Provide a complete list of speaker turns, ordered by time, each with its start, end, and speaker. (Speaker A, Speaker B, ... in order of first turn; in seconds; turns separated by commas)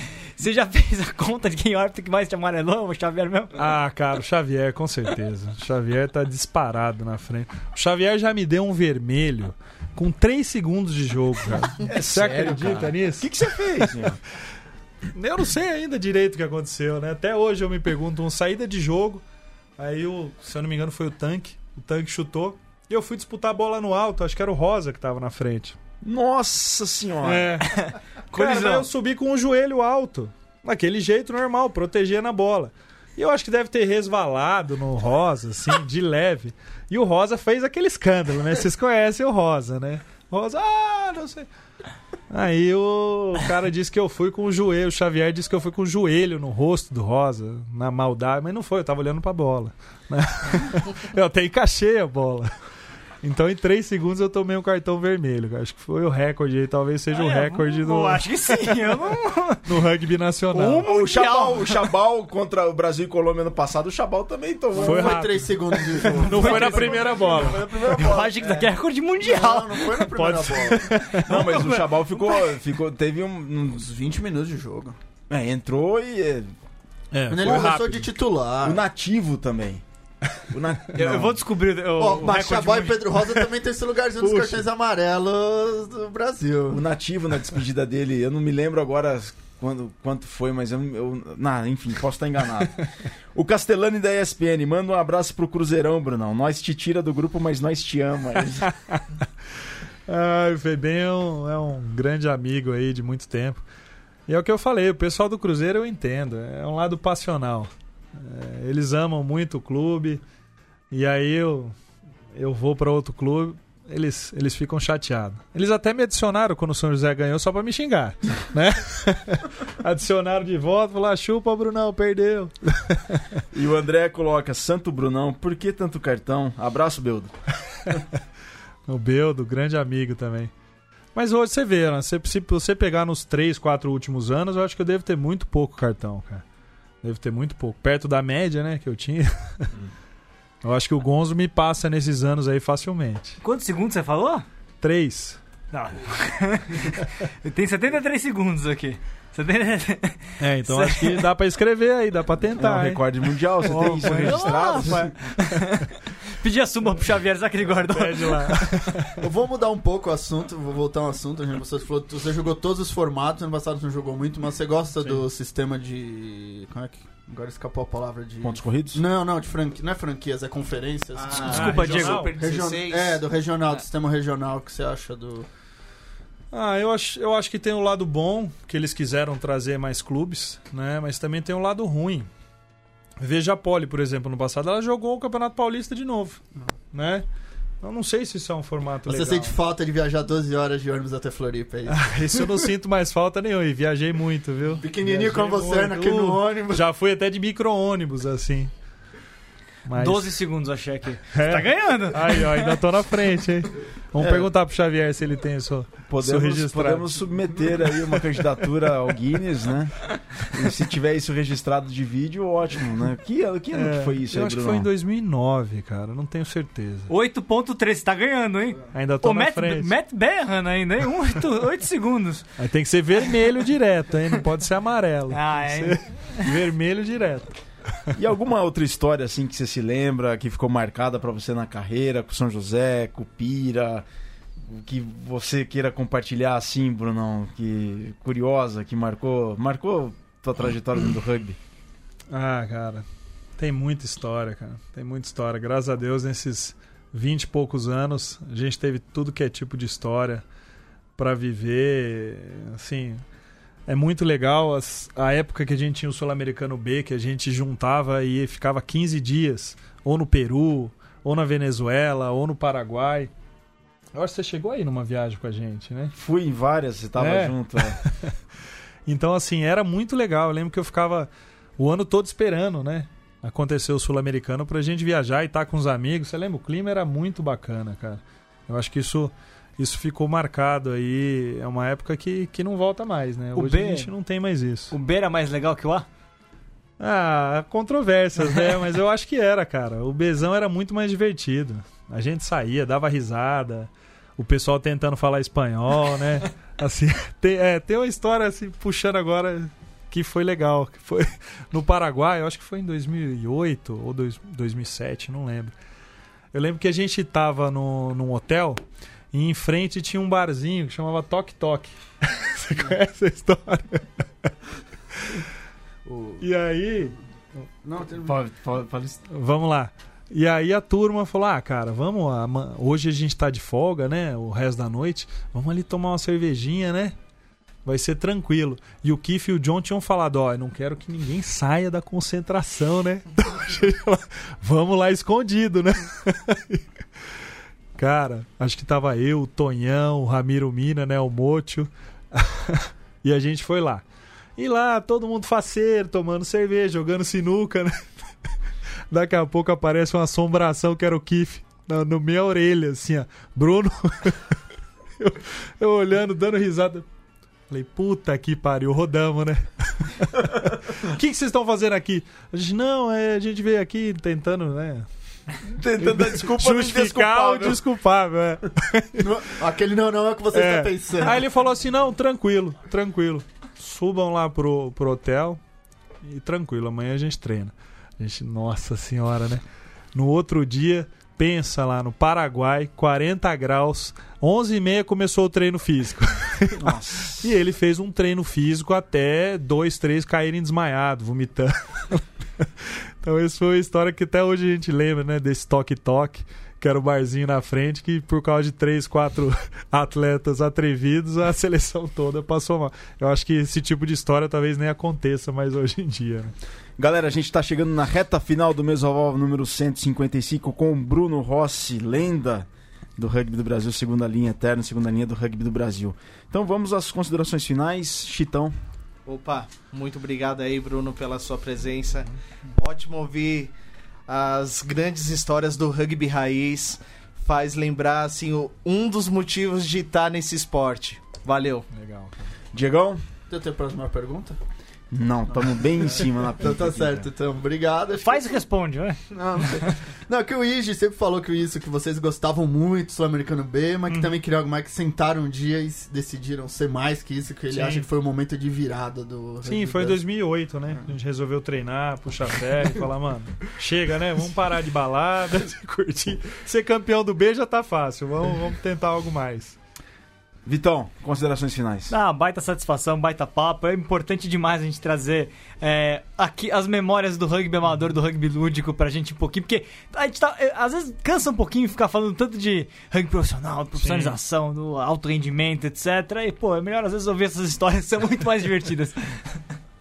Speaker A: 0.4-3.5, Speaker B: 3.6-13.9, Speaker C: 11.9-14.2, Speaker B: 15.1-19.2, Speaker B: 19.8-25.8, Speaker C: 26.0-27.5, Speaker B: 27.2-41.5, Speaker A: 27.7-28.9, Speaker B: 42.3-52.5, Speaker B: 53.2-58.3, Speaker A: 57.1-59.7, Speaker B: 59.6-60.9, Speaker A: 60.5-61.9, Speaker C: 60.6-65.2, Speaker D: 64.7-67.4, Speaker B: 64.8-67.6, Speaker A: 66.1-69.9, Speaker C: 66.2-68.5, Speaker D: 69.2-70.9, Speaker B: 70.0-71.2, Speaker A: 70.9-72.4, Speaker C: 71.2-73.8, Speaker D: 73.8-75.0, Speaker C: 75.3-76.5, Speaker B: 77.1-78.1, Speaker D: 77.3-78.8, Speaker C: 77.4-77.8, Speaker C: 78.6-79.8, Speaker C: 80.5-81.4, Speaker A: 80.9-83.4, Speaker D: 82.0-86.8, Speaker C: 84.3-84.6, Speaker C: 86.7-92.8, Speaker C: 93.3-98.7, Speaker B: 98.6-99.0, Speaker B: 100.1-103.6, Speaker B: 104.3-110.2, Speaker B: 110.9-111.8, Speaker B: 112.3-123.4, Speaker C: 123.5-127.3, Speaker B: 128.9-130.5, Speaker B: 131.2-136.4, Speaker B: 137.0-139.7, Speaker B: 140.6-143.4, Speaker A: 143.4-144.4, Speaker B: 144.8-145.4, Speaker A: 145.7-151.3, Speaker B: 150.4-153.0, Speaker C: 152.6-155.1, Speaker B: 153.6-155.0, Speaker A: 153.7-158.7, Speaker B: 157.9-159.2, Speaker D: 159.2-175.5, Speaker C: 168.4-169.0, Speaker E: 171.2-173.2, Speaker B: 171.4-172.4, Speaker A: 171.5-172.3, Speaker B: 176.5-182.3, Speaker B: 183.2-187.3, Speaker B: 187.8-189.6, Speaker D: 189.1-192.7, Speaker B: 191.9-198.7, Speaker D: 194.8-196.8, Speaker B: 199.9-200.4, Speaker A: 199.9-202.8, Speaker B: 201.3-207.2, Speaker C: 204.2-204.5, Speaker C: 206.1-214.9, Speaker B: 213.7-217.1, Speaker A: 217.1-222.4, Speaker B: 218.9-219.9, Speaker B: 222.6-227.6, Speaker A: 225.3-226.5, Speaker C: 228.1-234.1, Speaker C: 234.7-241.6, Speaker B: 242.3-243.1, Speaker B: 243.6-250.4, Speaker B: 251.2-253.2, Speaker B: 253.9-263.3, Speaker B: 264.1-266.1, Speaker C: 266.2-268.0, Speaker B: 267.2-268.4, Speaker B: 269.1-284.9, Speaker A: 283.6-284.1, Speaker A: 284.9-286.1, Speaker B: 287.0-305.7, Speaker B: 306.5-308.8, Speaker B: 309.3-314.1, Speaker B: 315.1-315.4, Speaker D: 316.1-316.4, Speaker B: 316.4-317.2, Speaker D: 317.8-318.4, Speaker C: 318.1-319.2, Speaker B: 319.3-327.1, Speaker B: 327.9-336.8, Speaker B: 338.0-344.0, Speaker B: 344.6-348.1, Speaker B: 349.1-354.6, Speaker B: 355.2-357.1, Speaker B: 357.7-365.1, Speaker C: 365.6-367.8, Speaker B: 366.0-369.4, Speaker D: 369.2-371.4, Speaker B: 370.5-375.6, Speaker B: 376.2-379.6, Speaker B: 380.1-406.5, Speaker C: 386.7-387.5, Speaker C: 407.0-418.7, Speaker E: 419.3-423.7, Speaker E: 424.3-431.9, Speaker B: 431.9-432.3, Speaker C: 432.7-433.2, Speaker D: 433.5-434.6, Speaker C: 435.1-437.3, Speaker D: 436.6-438.5, Speaker A: 438.2-439.8, Speaker D: 439.3-450.2, Speaker B: 444.1-444.4, Speaker B: 447.7-448.1, Speaker B: 449.6-459.8, Speaker C: 460.6-462.1, Speaker A: 462.1-479.6, Speaker B: 474.0-474.4